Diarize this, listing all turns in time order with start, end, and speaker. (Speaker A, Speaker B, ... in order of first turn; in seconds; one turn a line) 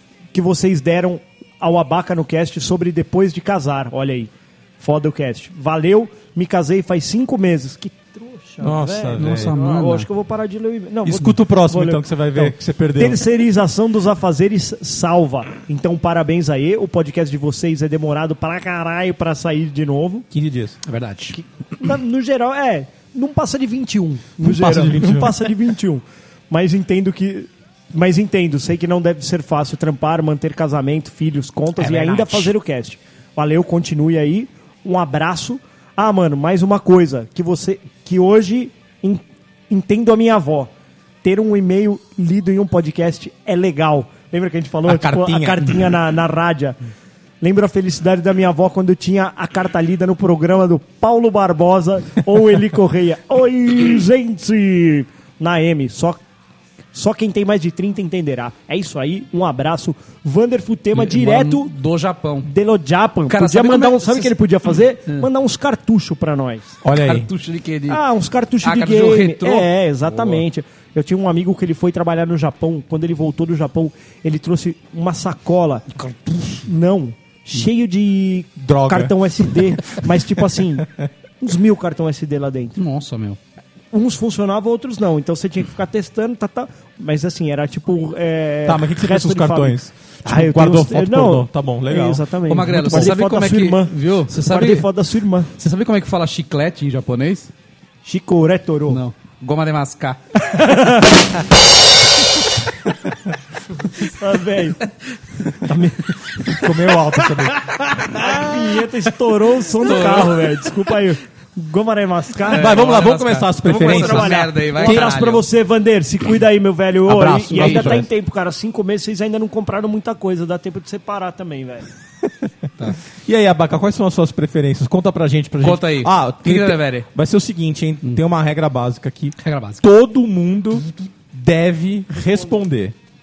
Speaker A: 0.3-20.3
Speaker B: 8.6-9.6
Speaker C: 9.2-10.1
Speaker B: 11.0-13.2
Speaker B: 20.3-20.8
Speaker C: 20.8-21.4
Speaker A: 21.4-40.7
Speaker B: 24.4-25.6
Speaker C: 31.8-32.5
Speaker A: 41.2-46.8
Speaker B: 44.9-46.0
Speaker A: 47.4-56.2
Speaker A: 56.9-61.7
Speaker C: 60.9-62.5
Speaker A: 62.4-66.8
Speaker C: 63.3-64.3
Speaker B: 66.8-67.3
Speaker C: 67.0-68.0
Speaker A: 67.9-80.9
Speaker C: 68.6-70.4
Speaker B: 78.6-80.0
Speaker B: 80.8-81.1
Speaker A: 81.4-82.8
Speaker C: 82.8-83.4
Speaker A: 83.9-95.5
Speaker B: 88.7-92.3
Speaker C: 92.5-94.9
Speaker B: 92.8-93.1
Speaker C: 95.5-97.5
Speaker A: 98.0-99.0
Speaker C: 98.9-100.2
Speaker A: 100.4-101.4
Speaker A: 103.9-104.9
Speaker A: 105.6-107.2
Speaker B: 106.5-107.8
Speaker A: 108.0-112.9
Speaker C: 109.8-110.4
Speaker B: 112.5-115.2
Speaker C: 112.5-115.4
Speaker A: 113.7-121.9
Speaker B: 117.1-118.1
Speaker C: 117.5-118.0
Speaker B: 123.2-132.9
Speaker C: 125.6-127.1
Speaker C: 129.4-129.8